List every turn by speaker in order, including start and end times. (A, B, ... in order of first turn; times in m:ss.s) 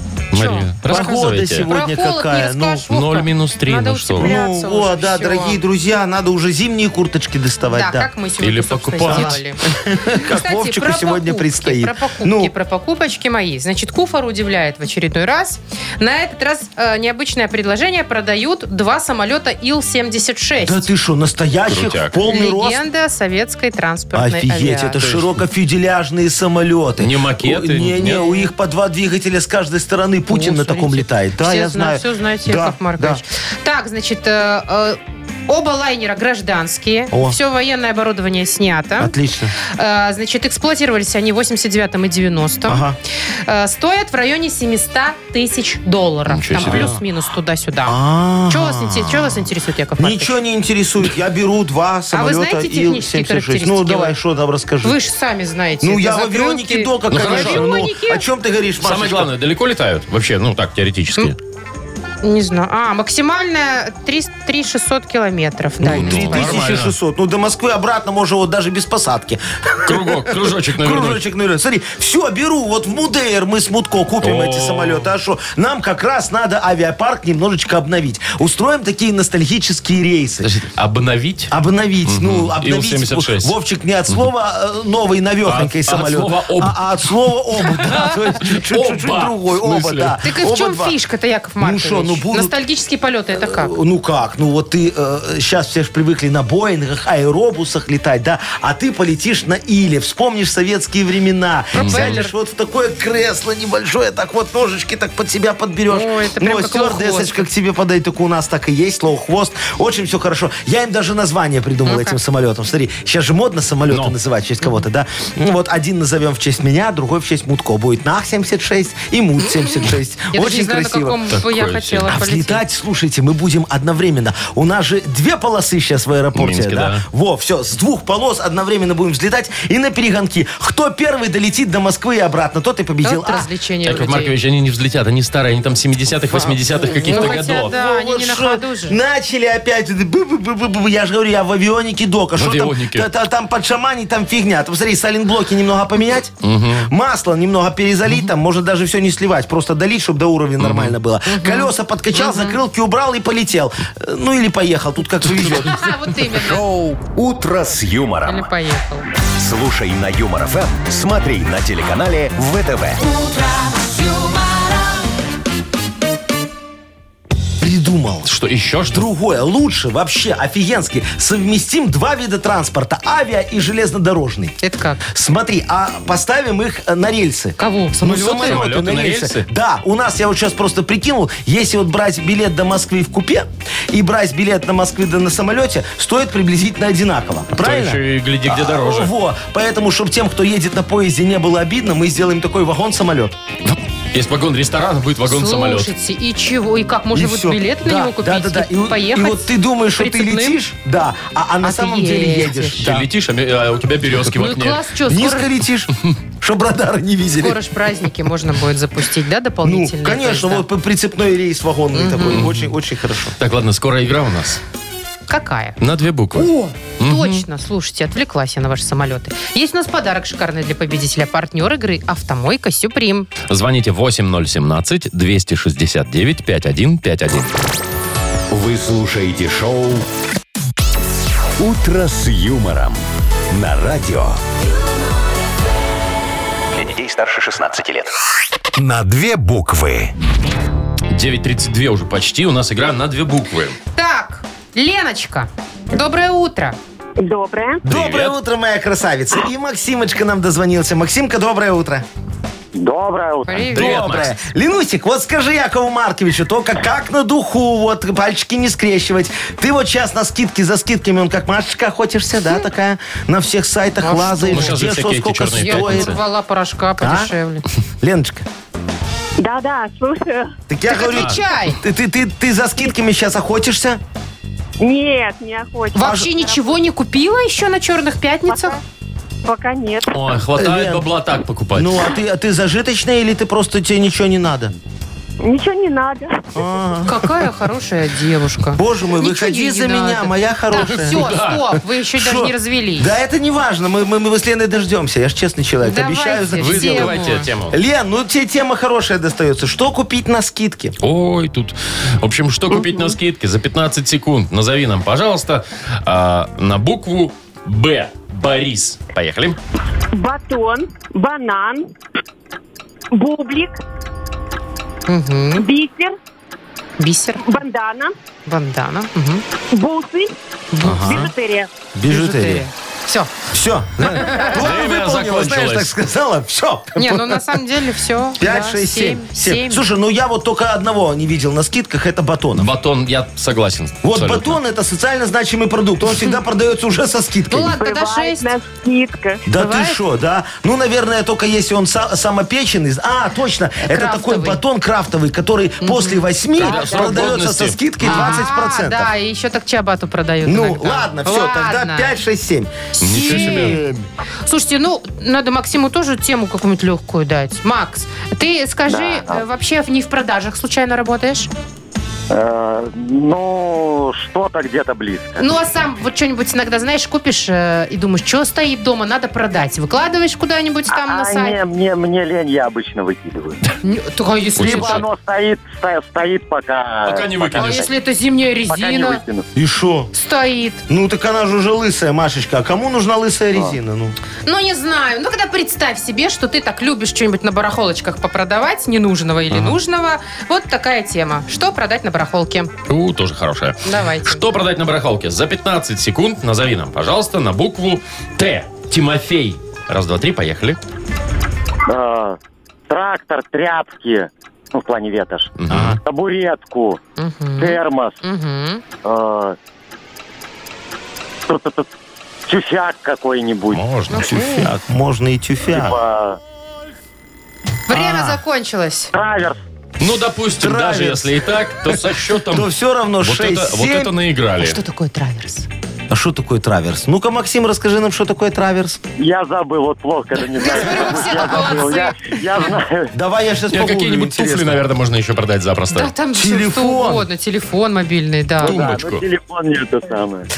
0:00.3-0:01.7 A
0:00.3-0:00.7 B
0:00.8-0:02.8 C
0:01.6-0:05.6 B
0:02.9-0:04.3 A
0:04.2-0:08.1 C
0:07.7-0:20.9 B
0:08.4-0:09.4 A
0:09.0-0:12.5 C
0:20.6-0:22.8 C
0:21.7-0:22.2 A
0:22.3-0:25.0 B
0:24.1-0:33.2 C
0:25.0-0:25.3 A
0:27.0-0:28.4 A
0:30.3-0:42.8 B
0:37.1-0:37.4 C
0:39.0-0:39.5 C
0:42.7-0:43.0 C
0:43.4-0:50.4 B
0:46.3-0:46.9 A
0:46.6-0:47.0 C
0:47.8-0:55.0 C
0:52.1-0:54.2 B
0:54.8-0:58.2 B
0:55.8-0:59.3 C
0:57.1-0:57.7 A
0:58.8-1:01.4 A
1:02.2-1:06.6 B
1:05.8-1:20.5 C
1:05.9-1:06.9 A
1:09.8-1:11.2 A
1:14.2-1:15.1 A
1:20.4-1:21.5 A
1:21.5-1:31.0 C
1:22.0-1:23.5 A
1:25.4-1:26.8 A
1:28.4-1:30.2 A
1:30.2-1:33.7 B
1:31.6-1:32.5 C
1:33.3-2:01.2 C
1:41.7-1:42.3 B
1:41.8-1:42.2 A
1:45.9-1:47.5 B
1:51.8-1:52.2 B
1:53.9-1:54.2 A
2:00.3-2:02.6 B
2:01.3-2:02.1 A
2:02.1-2:13.5 C
2:06.3-2:07.0 A
2:13.0-2:14.3 B
2:13.8-2:17.7 A
2:16.3-2:35.8 C
2:17.1-2:19.0 B
2:22.4-2:23.1 A
2:26.4-2:26.9 A
2:30.6-2:31.0 A
2:31.2-2:32.6 B
2:35.3-2:35.5 A
2:35.4-2:36.6 B
2:36.2-2:38.5 D
2:38.2-2:39.1 B
2:39.4-2:43.0 D
2:43.0-2:44.9 E
2:47.6-2:48.3 C
2:48.2-2:49.0 A
2:48.9-2:54.6 C
2:54.6-2:55.0 B
2:55.1-3:13.4 C
2:57.6-2:58.2 B
2:58.0-2:59.4 A
3:07.6-3:09.1 A
3:13.6-3:15.9 A
3:15.2-3:20.6 B
3:17.1-3:23.0 C
3:21.6-3:22.8 B
3:22.8-3:24.8 A
3:24.3-3:25.5 B
3:25.0-3:27.6 C
3:27.4-3:30.6 B
3:29.6-3:33.3 C
3:31.9-3:32.5 B
3:32.3-3:32.6 A
3:33.4-3:34.6 A
3:35.3-3:35.8 B
3:35.8-3:37.4 A
3:36.4-3:43.3 B
3:43.5-3:47.5 A
3:48.5-3:50.1 D
3:51.6-3:54.4 D
3:56.7-3:58.1 E
3:58.8-4:00.1 D
4:01.1-4:03.8 A
4:03.9-4:06.8 B
4:07.2-4:07.8 F
4:07.8-4:12.0 C
4:07.8-4:08.3 A
4:12.8-4:13.7 G
4:13.5-4:14.3 B
4:13.7-4:14.4 A
4:13.7-4:26.2 C
4:24.0-4:24.8 B
4:24.5-4:26.2 A
4:25.6-4:27.6 B
4:27.0-4:27.3 C
4:28.0-4:28.4 C
4:29.4-4:30.5 F
4:30.7-4:34.0 C
4:30.8-4:31.8 B
4:31.1-4:31.4 A
4:34.8-4:36.8 F
4:35.9-4:38.8 B
4:36.0-4:36.3 C
4:38.5-4:38.8 F
4:39.4-4:40.2 F
4:40.1-4:42.0 A
4:40.6-4:41.0 C
4:41.7-4:44.7 C
4:45.4-4:46.6 F
4:46.5-4:47.4 C
4:47.0-4:53.1 B
4:48.7-4:51.3 C
4:50.8-4:51.8 A
4:52.2-5:01.0 C
4:55.8-4:57.5 B
4:56.6-4:57.8 A
5:01.0-5:09.6 A
5:02.7-5:03.1 F
5:10.1-5:11.8 F
5:13.1-5:13.8 F
5:15.1-5:15.7 B
5:15.6-5:16.1 F
5:17.0-5:17.4 B
5:17.4-5:18.1 F
5:18.4-5:19.4 B
5:19.7-5:20.3 F
5:20.7-5:21.3 B
5:20.8-5:21.3 C
5:20.9-5:21.7 F
5:21.9-5:22.6 C
5:22.1-5:23.3 B
5:23.5-5:27.6 C
5:24.0-5:24.6 B
5:24.5-5:25.9 A
5:27.0-5:29.8 B
5:28.4-5:32.7 C
5:32.6-5:34.6 A
5:34.0-5:37.8 C
5:37.5-5:38.5 B
5:37.7-5:39.5 F
5:39.4-5:49.1 C
5:39.5-5:40.0 B
5:43.8-5:44.6 B
5:45.8-5:47.4 B
5:46.6-5:48.4 A
5:48.0-5:52.1 B
5:50.4-5:53.9 C
5:52.9-5:53.8 B
5:53.0-5:54.0 A
5:54.4-6:01.5 B
5:58.9-5:59.4 G
6:02.3-6:05.5 G
6:05.4-6:11.6 B
6:10.9-6:13.6 G
6:13.8-6:15.0 B
6:14.6-6:15.1 A
6:14.6-6:17.9 G
6:17.0-6:17.9 A
6:17.6-6:19.2 B
6:18.7-6:19.4 G
6:19.5-6:20.1 C
6:20.1-6:20.8 B
6:20.9-6:24.1 C
6:24.4-6:32.7 B
6:32.9-6:40.8 A
6:33.8-6:34.4 B
6:41.9-6:42.4 G
6:42.9-6:47.0 G
6:45.6-6:46.0 A
6:45.7-6:46.0 C
6:47.2-6:48.8 B
6:47.6-6:48.2 G
6:49.0-6:49.6 G
6:51.5-6:51.9 G
6:52.4-6:53.8 G
6:53.7-6:54.4 A
6:54.1-6:54.7 B
6:54.3-6:56.0 C
6:55.7-6:56.4 G
6:57.9-6:59.1 B
6:57.9-6:58.4 C
6:59.1-6:59.6 G
7:00.0-7:02.7 A
7:00.6-7:01.3 C
7:01.9-7:04.1 C
7:03.2-7:04.8 A
7:04.6-7:05.7 B
7:06.1-7:09.0 C
7:09.2-7:13.1 G
7:10.6-7:12.2 B
7:13.1-7:14.8 C
7:13.7-7:16.1 A
7:15.9-7:18.8 B
7:16.3-7:17.2 C
7:18.6-7:20.5 G
7:18.6-7:19.2 A